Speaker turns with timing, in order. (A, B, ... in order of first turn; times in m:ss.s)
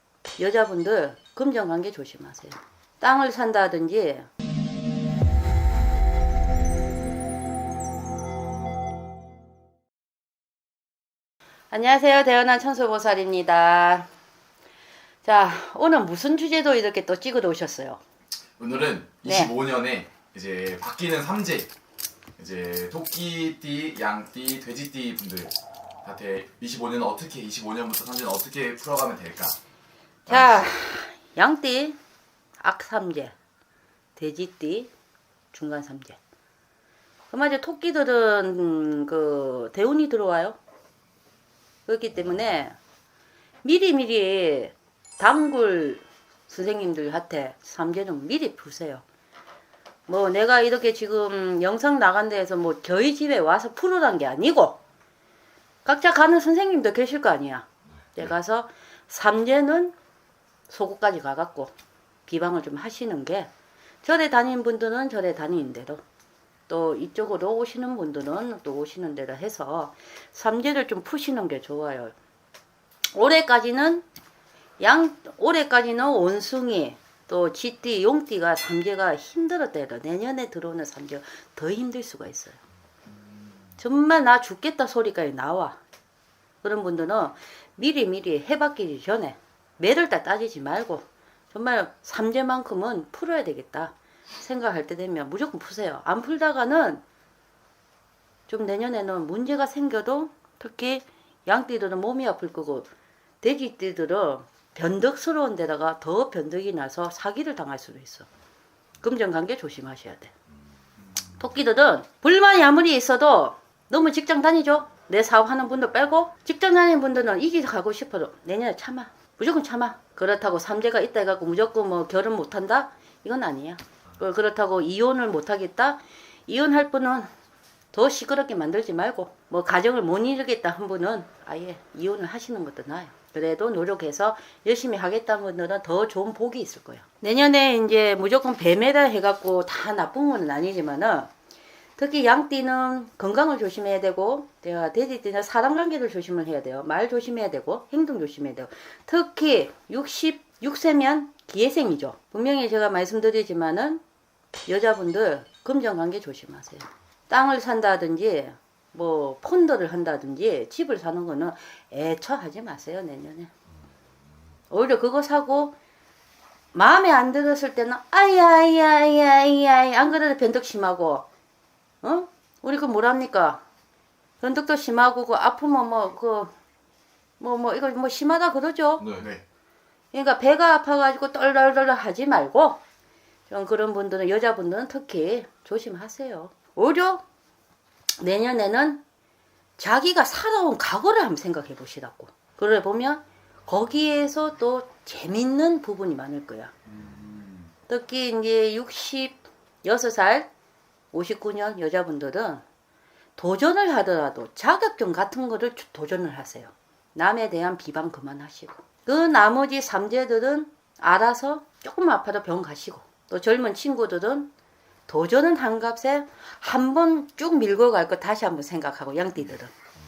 0:00.2-0:04.3 A
0:11.7-0:14.1 A
0:15.2-0:18.0 A
0:18.6-0:21.7 B
0:19.2-0:19.5 A
0:22.4-0:29.6 B
0:30.3-0:32.0 A
0:30.3-0:30.7 B
0:32.6-0:33.4 A
0:34.2-0:34.9 A
0:35.5-0:36.2 A
0:37.3-0:40.6 A
0:41.9-0:42.8 A
0:43.6-0:49.0 A
0:50.1-0:54.8 A
0:55.8-0:59.9 A
1:00.7-1:01.7 A
1:02.3-1:03.5 A
1:04.0-1:06.0 A
1:06.7-1:12.1 A
1:13.1-1:14.1 A
1:14.8-1:22.6 A
1:23.8-1:25.8 A
1:26.6-1:37.0 A
1:38.5-1:42.9 A
1:43.4-1:48.3 A
1:49.0-1:50.3 A
1:51.4-2:07.3 A
2:07.9-2:21.3 A
2:22.0-2:34.0 A
2:34.6-2:43.5 A
2:44.7-2:45.8 A
2:46.7-2:51.3 A
2:52.0-2:53.6 A
2:54.4-2:56.5 A
2:57.4-2:59.2 A
2:59.0-2:59.4 B
3:00.1-3:02.8 A
3:03.5-3:07.2 A
3:08.2-3:09.0 A
3:09.8-3:16.7 A
3:17.0-3:17.6 B
3:17.9-3:20.5 A
3:21.1-3:22.6 A
3:23.4-3:34.5 A
3:35.1-3:39.7 A